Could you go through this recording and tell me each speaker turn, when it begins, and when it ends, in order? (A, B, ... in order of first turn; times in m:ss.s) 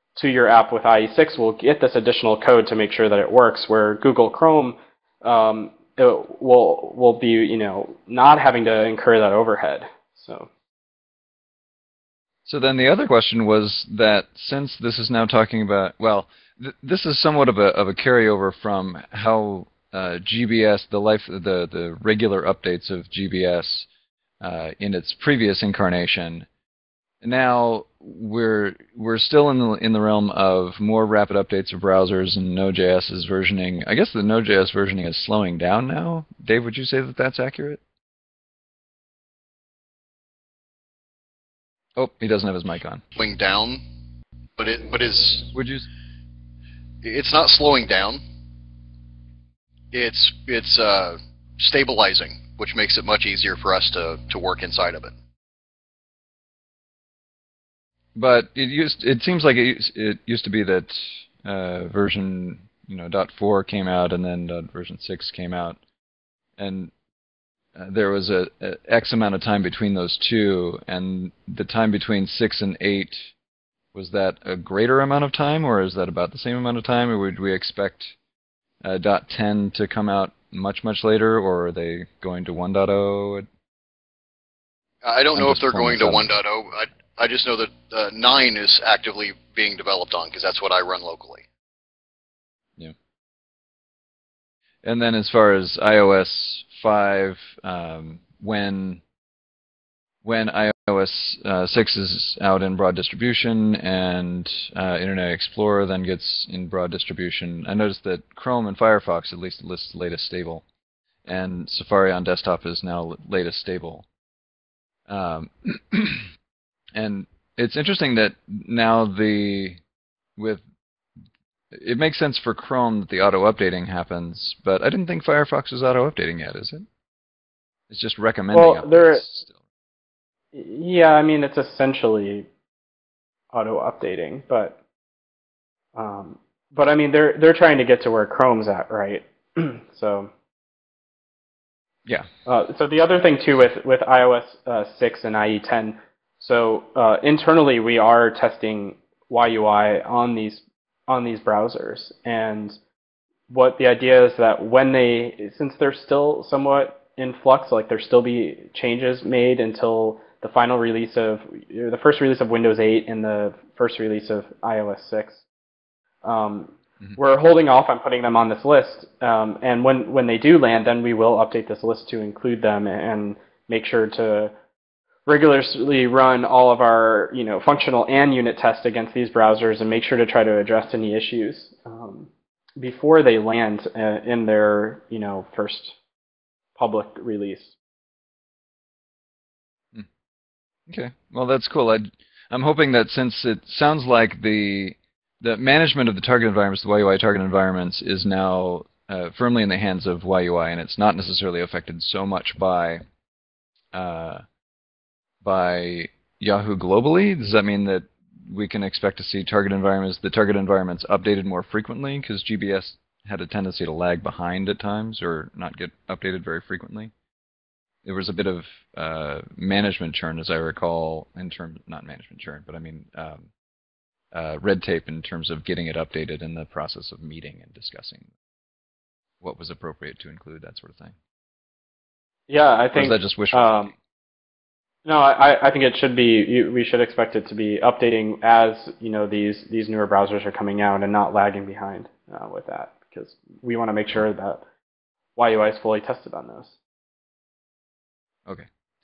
0:00.2-0:10.5 A
0:12.4-0:23.9 B
0:24.4-0:26.5 B
0:27.2-0:37.8 B
0:42.0-0:43.0 B
0:43.1-0:43.8 C
0:44.6-0:45.5 C
0:45.5-0:45.9 B
0:47.0-0:48.2 C
0:49.9-0:55.1 C
0:58.2-1:05.8 B
1:06.6-1:06.9 B
1:07.8-1:13.3 B
1:13.9-1:18.1 B
1:18.8-1:23.5 B
1:25.0-1:31.4 C
1:25.3-1:26.3 B
1:34.8-1:39.0 B
1:40.2-1:50.6 B
1:51.2-1:54.0 B
1:55.1-1:56.3 B
1:57.0-1:59.8 B
2:00.4-2:00.6 B
2:01.7-2:06.8 B
2:07.9-2:09.5 B
2:08.5-2:09.2 A
2:10.5-2:12.5 A
2:13.5-2:14.8 A
2:15.9-2:20.3 A
2:22.4-2:32.8 A
2:33.5-2:45.4 A
2:46.2-2:54.5 A
2:55.3-3:05.9 A
3:06.8-3:07.7 A
3:10.9-3:23.0 B
3:23.9-3:24.4 B
3:25.4-3:37.1 B
3:38.0-3:43.5 B
3:44.3-3:48.3 B
3:49.4-3:51.1 B
3:52.5-3:53.9 A
3:52.9-3:53.9 B
3:55.0-4:04.6 A
4:05.4-4:06.7 A